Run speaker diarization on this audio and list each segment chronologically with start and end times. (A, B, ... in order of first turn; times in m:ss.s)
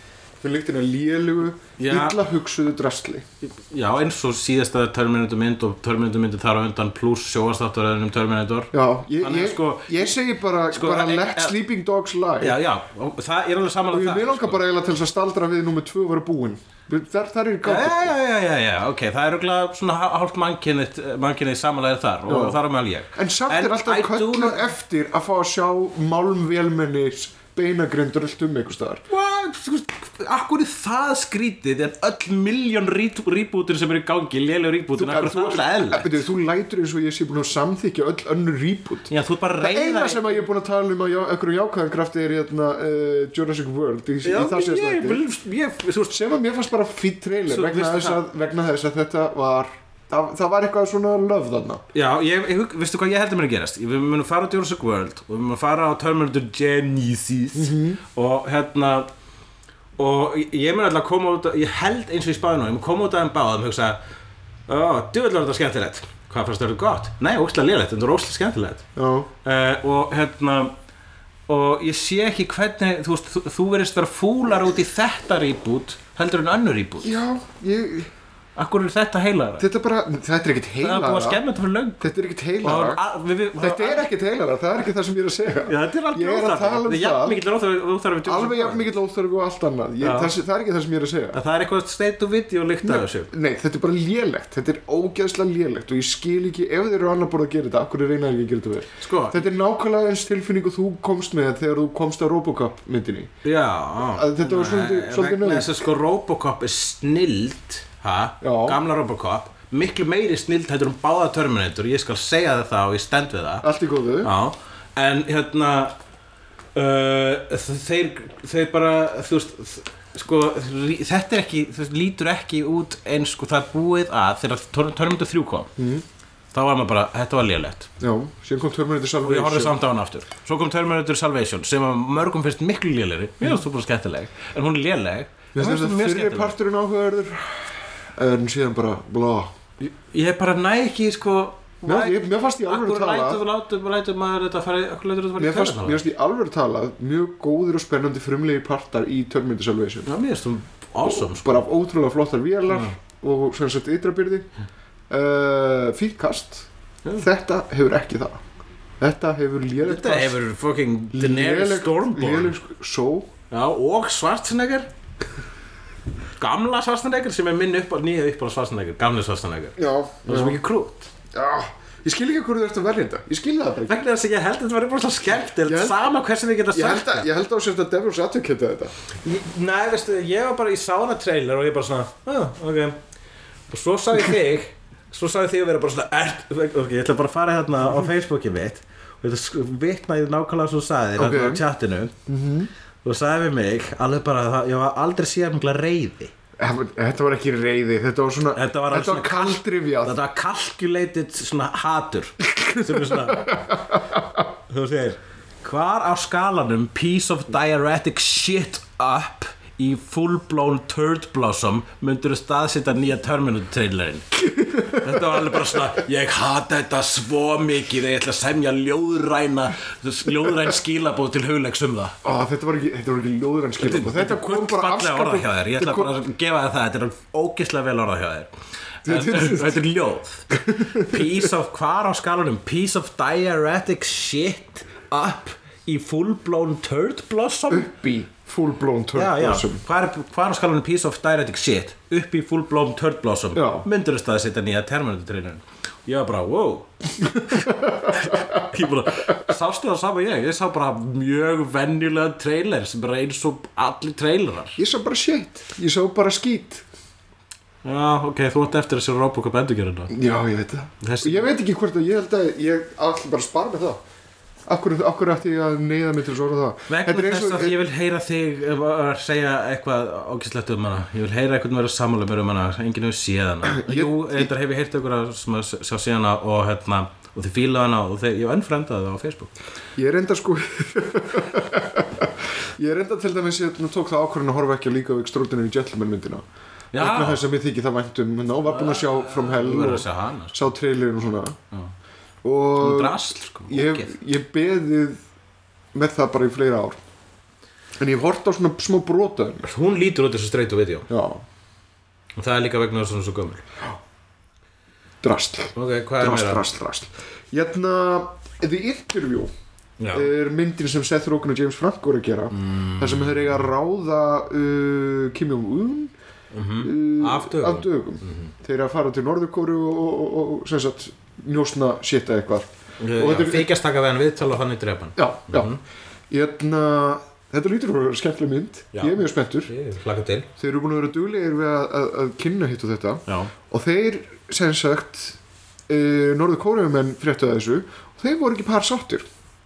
0:00.4-0:03.2 A
0:01.8-0:02.2 B
0:03.4-0:10.2 B
0:08.7-0:12.6 A
0:10.7-0:11.6 B
0:12.4-0:14.6 B
0:13.9-0:18.1 A
0:17.6-0:24.7 B
0:22.2-0:22.6 A
0:23.1-0:29.0 A
0:29.1-0:36.2 B
0:35.0-0:45.2 A
0:39.1-0:40.5 B
0:44.2-0:46.2 B
0:46.1-0:51.8 A
0:47.5-0:48.2 B
0:51.9-0:59.1 B
0:57.5-0:58.0 A
1:00.0-1:04.0 B
1:04.7-1:08.8 B
1:09.0-1:09.3 A
1:09.4-1:10.7 B
1:11.5-1:17.2 B
1:17.0-1:18.1 A
1:18.6-1:19.6 B
1:19.6-1:21.4 A
1:20.8-1:24.0 B
1:22.0-1:23.0 A
1:23.6-1:27.4 A
1:25.6-1:28.9 B
1:28.2-1:31.4 A
1:30.0-1:30.3 B
1:31.3-1:33.3 B
1:32.8-1:43.3 A
1:39.0-1:39.4 B
1:43.4-1:53.6 B
1:44.1-1:45.8 A
1:48.4-1:48.8 A
1:53.6-1:54.3 A
1:54.2-1:56.0 B
1:56.7-2:05.7 B
2:05.8-2:06.0 A
2:06.5-2:07.9 B
2:08.0-2:09.8 A
2:09.2-2:16.5 B
2:15.5-2:19.5 A
2:19.8-2:26.0 B
2:21.8-2:23.4 A
2:25.4-2:30.1 A
2:30.0-2:31.6 B
2:31.0-2:34.5 A
2:35.1-2:38.4 A
2:39.0-2:40.4 A
2:39.8-2:42.6 B
2:41.1-2:43.3 A
2:43.5-2:44.9 B
2:46.4-2:51.1 B
2:49.8-2:50.6 A
2:51.3-2:54.0 A
2:53.8-2:57.2 B
2:55.6-2:56.0 A
2:56.7-2:58.9 A
2:59.2-3:03.0 B
3:03.7-3:12.1 B
3:11.2-3:11.6 A
3:12.3-3:12.7 A
3:13.0-3:16.3 B
3:16.6-3:20.1 A
3:18.5-3:23.6 B
3:22.4-3:24.5 A
3:24.7-3:42.2 B
3:34.4-3:35.8 A
3:42.2-3:46.2 A
3:43.8-3:48.5 B
3:49.0-3:57.9 B
3:49.0-3:49.8 A
3:50.5-3:51.4 A
3:57.7-3:59.8 A
3:59.1-4:06.9 B
4:03.5-4:03.8 A
4:07.2-4:08.6 A
4:07.5-4:14.8 B
4:14.8-4:16.8 A
4:17.8-4:20.1 B
4:20.1-4:24.0 A
4:21.0-4:21.4 B
4:24.7-4:27.8 A
4:26.9-4:39.5 B
4:33.7-4:34.5 A
4:40.0-4:46.4 A
4:46.9-4:47.4 B
4:47.0-4:51.6 A
4:48.6-4:50.6 B
4:52.4-4:55.2 A
4:52.8-4:54.1 B
4:55.9-4:57.0 A
4:58.0-4:59.7 A
4:59.7-5:01.1 B
5:01.1-5:01.4 A
5:02.4-5:03.6 B
5:05.2-5:09.5 A
5:05.8-5:06.6 B
5:10.0-5:10.3 B
5:10.1-5:16.1 A
5:12.5-5:13.5 B
5:16.5-5:18.5 B
5:16.8-5:23.7 A
5:23.0-5:25.8 B
5:25.2-5:25.8 A
5:26.3-5:29.7 A
5:28.9-5:30.5 B
5:30.6-5:35.4 A
5:33.3-5:33.5 B
5:35.9-5:39.2 A